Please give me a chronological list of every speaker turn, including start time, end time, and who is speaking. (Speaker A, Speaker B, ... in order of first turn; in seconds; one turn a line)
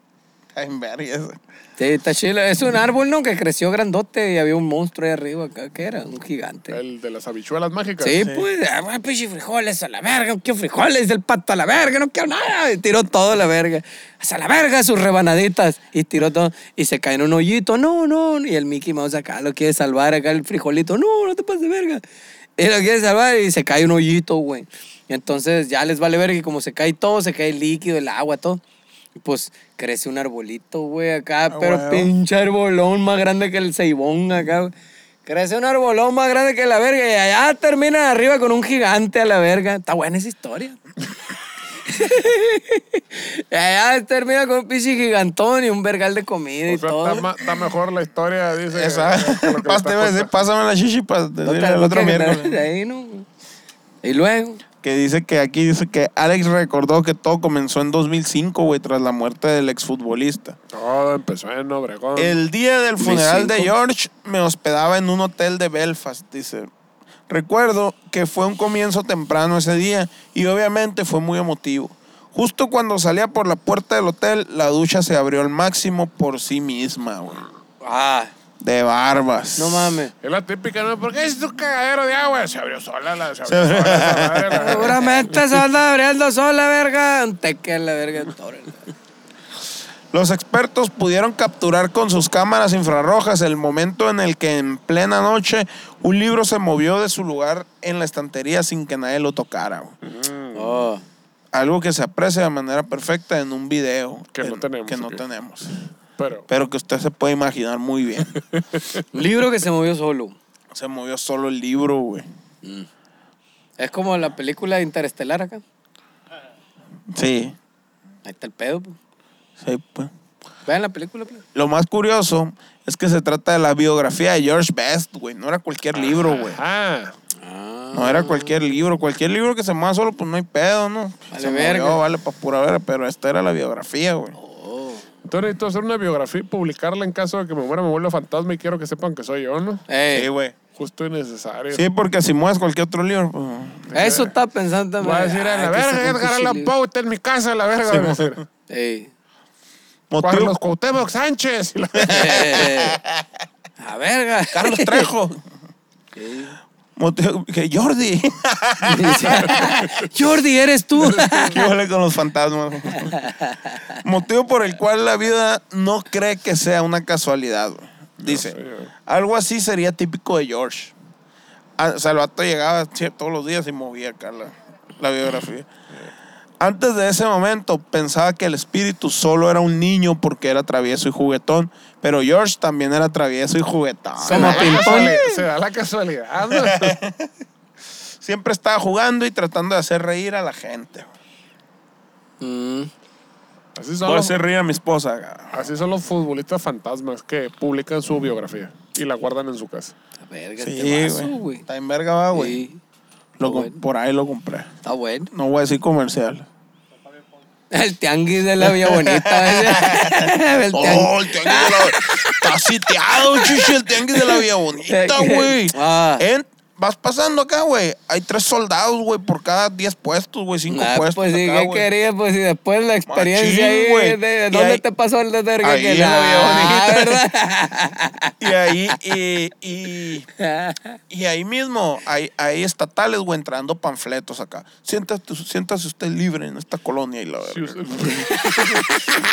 Speaker A: 0.5-1.4
Speaker B: 1.8-6.8
Speaker C: 6.7-8.3
Speaker B: 8.0-22.0
Speaker B: 22.6-28.6
Speaker B: 29.2-34.7
Speaker A: 31.5-32.1
Speaker B: 35.2-40.8
Speaker B: 41.9-47.3
Speaker C: 46.7-50.3
Speaker A: 48.7-52.6
Speaker B: 51.4-53.3
Speaker B: 54.0-54.6
Speaker A: 54.8-60.6
Speaker C: 60.7-62.4
Speaker A: 62.1-66.7
Speaker B: 63.0-63.7
Speaker A: 67.3-77.4
Speaker B: 77.8-78.3
Speaker A: 78.6-80.0
Speaker B: 79.6-80.1
Speaker C: 80.2-85.4
Speaker A: 83.5-85.0
Speaker B: 84.5-88.8
Speaker A: 90.1-99.9
Speaker C: 100.0-100.9
Speaker B: 100.5-101.0
Speaker A: 101.5-105.7
Speaker C: 104.3-105.2
Speaker C: 106.2-106.5
Speaker A: 106.5-108.3
Speaker C: 108.3-109.0
Speaker B: 109.1-110.3
Speaker A: 110.7-112.2
Speaker B: 112.6-112.9
Speaker B: 113.8-115.6
Speaker A: 117.1-117.5
Speaker B: 118.2-119.0
Speaker A: 119.6-120.1
Speaker B: 120.7-121.4
Speaker A: 121.5-126.6
Speaker C: 125.9-127.1
Speaker B: 127.4-128.6
Speaker A: 127.9-134.4
Speaker B: 131.3-132.0
Speaker B: 134.4-135.0
Speaker C: 135.2-139.8
Speaker B: 139.9-140.3
Speaker A: 140.1-140.6
Speaker C: 140.8-141.8
Speaker A: 141.7-143.9
Speaker C: 143.9-144.3
Speaker B: 143.9-146.7
Speaker C: 145.0-148.4
Speaker A: 147.9-148.4
Speaker B: 148.7-149.1
Speaker A: 150.1-150.5
Speaker C: 150.2-152.7
Speaker A: 152.0-153.2
Speaker B: 152.1-153.0
Speaker B: 153.8-155.1
Speaker A: 154.5-155.4
Speaker B: 156.2-156.5
Speaker A: 156.9-159.8
Speaker B: 158.8-161.6
Speaker C: 159.4-159.9
Speaker C: 161.0-161.6
Speaker A: 161.4-163.2
Speaker B: 163.2-163.8
Speaker A: 163.9-168.6
Speaker C: 168.2-168.9
Speaker A: 169.1-170.9
Speaker A: 171.8-175.7
Speaker A: 176.6-185.4
Speaker B: 184.2-185.2
Speaker C: 184.3-187.0
Speaker A: 186.5-187.3
Speaker A: 188.2-191.1
Speaker B: 192.4-192.9
Speaker C: 193.8-194.4
Speaker A: 194.0-195.6
Speaker C: 195.5-199.9
Speaker B: 200.2-201.6
Speaker A: 200.6-202.6
Speaker B: 202.3-202.8
Speaker A: 203.4-204.7
Speaker B: 203.4-203.8
Speaker B: 204.8-205.3
Speaker A: 205.3-206.5
Speaker B: 207.7-216.2
Speaker A: 208.6-221.9
Speaker B: 220.7-228.4
Speaker A: 223.1-224.8
Speaker A: 225.6-227.2
Speaker A: 228.4-230.3
Speaker B: 230.4-231.0
Speaker A: 231.1-238.3
Speaker C: 237.5-239.0
Speaker B: 238.3-239.2